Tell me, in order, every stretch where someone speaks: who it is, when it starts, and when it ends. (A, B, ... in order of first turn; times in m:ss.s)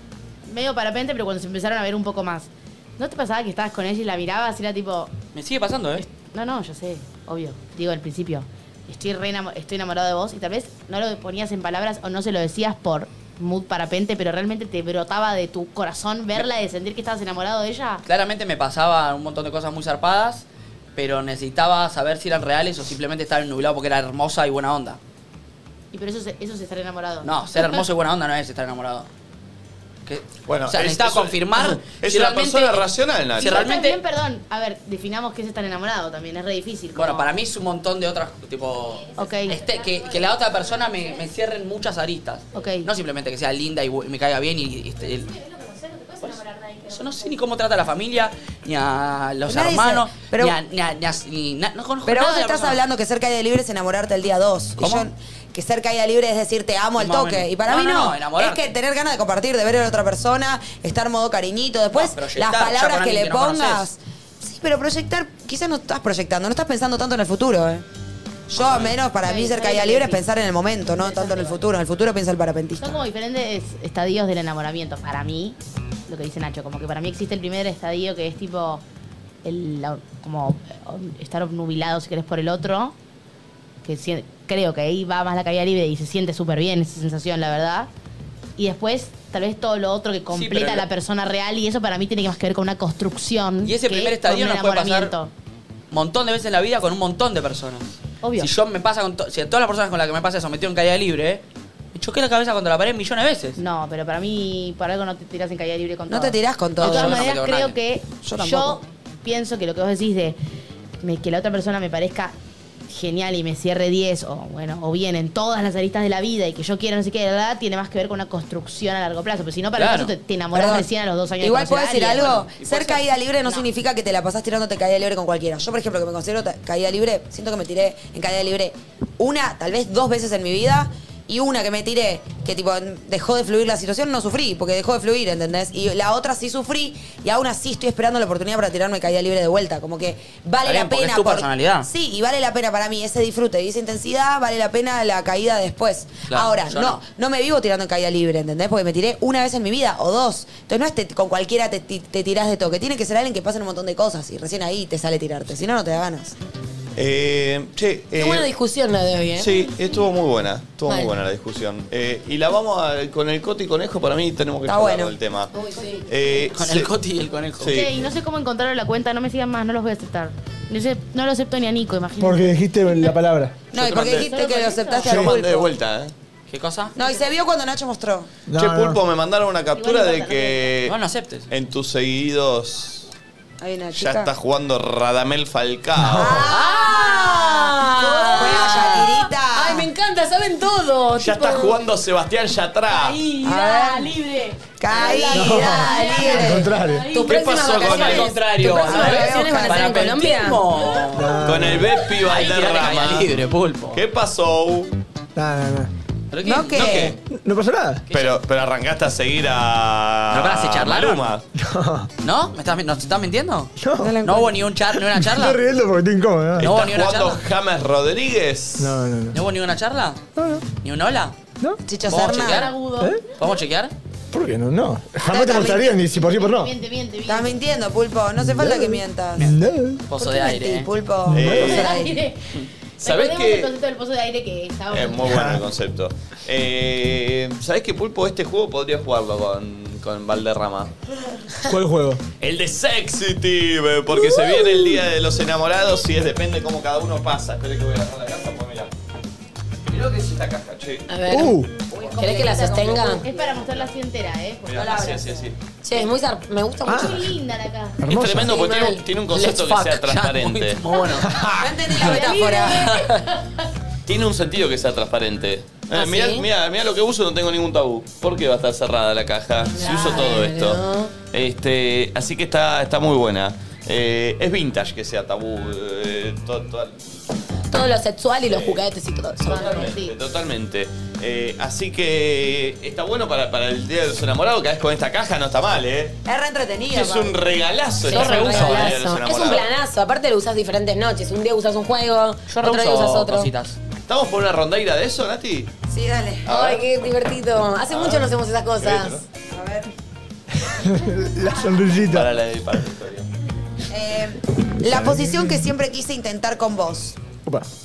0:00.5-0:05.1 A
0:05.4-0:06.0 B
0:06.0-0:18.0 A
0:18.0-0:20.4 B
0:21.0-0:25.0 B
0:25.9-0:27.8 A
0:27.2-0:29.1 B
0:30.1-0:32.9 B
0:30.5-0:33.6 C
0:33.4-0:34.0 B
0:33.4-0:37.3 A
0:37.0-0:45.3 B
0:39.2-0:39.6 A
0:42.5-0:42.9 A
0:46.2-0:52.8 B
0:49.5-0:50.6 D
0:52.0-1:07.8 D
0:54.8-0:55.1 B
0:57.0-0:58.7 B
1:01.9-1:03.9 B
1:08.5-1:13.0 D
1:08.6-1:08.9 B
1:09.2-1:10.2 A
1:11.0-1:11.6 A
1:12.8-1:15.6 A
1:16.1-1:18.8 A
1:19.4-1:23.0 A
1:23.8-1:27.9 A
1:28.6-1:35.3 A
1:30.3-1:30.9 B
1:33.6-1:35.1 B
1:35.9-1:41.4 B
1:38.2-1:38.5 A
1:41.9-1:43.6 B
1:43.6-1:50.4 A
1:46.1-1:47.2 D
1:46.8-1:47.8 B
1:48.2-1:48.8 D
1:51.0-1:52.3 A
1:52.9-2:02.4 A
1:59.8-2:00.1 B
2:00.5-2:00.9 D
2:01.4-2:36.4 D
2:02.2-2:03.0 B
2:20.6-2:21.9 B
2:26.3-2:27.0 B
2:37.0-2:38.5 C
2:38.2-2:39.5 E
2:39.4-2:45.5 C
2:40.9-2:41.2 E
2:44.7-2:45.2 D
2:45.5-2:46.1 E
2:46.1-2:46.9 C
2:46.5-2:47.8 B
2:47.6-2:48.1 C
2:47.7-2:53.2 A
2:52.2-2:53.7 F
2:53.7-2:55.7 D
2:53.8-2:54.2 C
2:54.0-2:55.1 A
2:55.1-2:55.4 F
2:55.2-2:56.1 C
2:56.5-2:56.9 B
2:57.0-2:58.3 D
2:58.5-2:59.0 F
2:58.6-3:01.0 C
2:59.8-3:00.7 A
3:00.8-3:01.5 B
3:01.5-3:03.1 C
3:03.6-3:04.3 D
3:03.9-3:06.4 C
3:06.0-3:06.4 F
3:06.1-3:09.9 D
3:06.5-3:11.8 E
3:08.4-3:09.0 A
3:11.2-3:13.2 C
3:12.9-3:17.5 A
3:13.2-3:13.5 E
3:13.4-3:14.2 D
3:14.8-3:16.7 D
3:14.9-3:20.9 E
3:15.3-3:17.1 F
3:17.2-3:18.3 C
3:17.7-3:24.0 B
3:18.8-3:20.0 D
3:21.2-3:22.0 F
3:21.4-3:23.4 C
3:23.9-3:24.9 C
3:25.4-3:25.9 F
3:26.3-3:27.1 B
3:26.4-3:27.2 D
3:26.7-3:27.2 C
3:27.2-3:28.0 F
3:28.1-3:28.4 B
3:28.1-3:31.4 C
3:30.3-3:31.3 B
3:31.6-3:32.1 F
3:32.2-3:35.6 B
3:33.8-3:34.3 F
3:34.0-3:34.6 D
3:34.9-3:36.7 F
3:36.6-3:39.0 C
3:36.6-3:37.4 B
3:38.8-3:39.4 F
3:39.3-3:40.2 B
3:40.4-3:40.7 F
3:40.8-3:41.4 B
3:41.8-3:42.7 D
3:42.1-3:42.8 B
3:42.3-3:43.3 A
3:43.3-3:43.9 B
3:44.3-3:46.7 F
3:45.2-3:46.0 D
3:46.2-3:47.6 A
3:47.3-3:49.5 D
3:48.4-3:50.0 F
3:50.1-3:50.9 B
3:50.2-3:52.2 D
3:51.3-3:51.9 F
3:51.3-3:52.0 C
3:51.5-3:55.3 A
3:53.0-3:53.7 C
3:54.9-4:00.9 C
3:55.2-3:55.6 F
4:01.7-4:02.2 F
4:02.4-4:08.9 C
4:09.8-4:11.1 C
4:11.1-4:13.3 E
4:11.2-4:11.8 F
4:12.0-4:12.8 C
4:12.0-4:13.6 D
4:12.4-4:16.1 A
4:14.7-4:15.6 C
4:14.8-4:15.4 D
4:15.8-4:17.2 E
4:16.9-4:17.2 F
4:16.9-4:18.0 A
4:18.0-4:18.6 F
4:18.1-4:20.8 C
4:18.2-4:19.0 E
4:19.3-4:21.5 B
4:21.2-4:22.1 F
4:21.6-4:23.0 D
4:21.9-4:23.7 A
4:24.1-4:37.3 C
4:25.9-4:26.5 E
4:29.8-4:31.1 E
4:37.7-4:40.0 E
4:38.4-4:38.9 C
4:39.4-4:46.2 C
4:39.5-4:40.2 A
4:46.3-4:47.4 D
4:46.9-4:49.7 C
4:48.0-4:53.5 E
4:48.1-4:49.0 B
4:52.5-4:53.8 B
4:54.1-4:55.7 C
4:55.9-4:56.5 D
4:56.5-4:56.8 C
4:56.5-4:59.2 E
4:57.9-4:59.2 C
4:59.5-4:59.9 D
5:00.6-5:02.3 F
5:02.0-5:03.3 C
5:03.9-5:07.2 D
5:04.9-5:05.6 F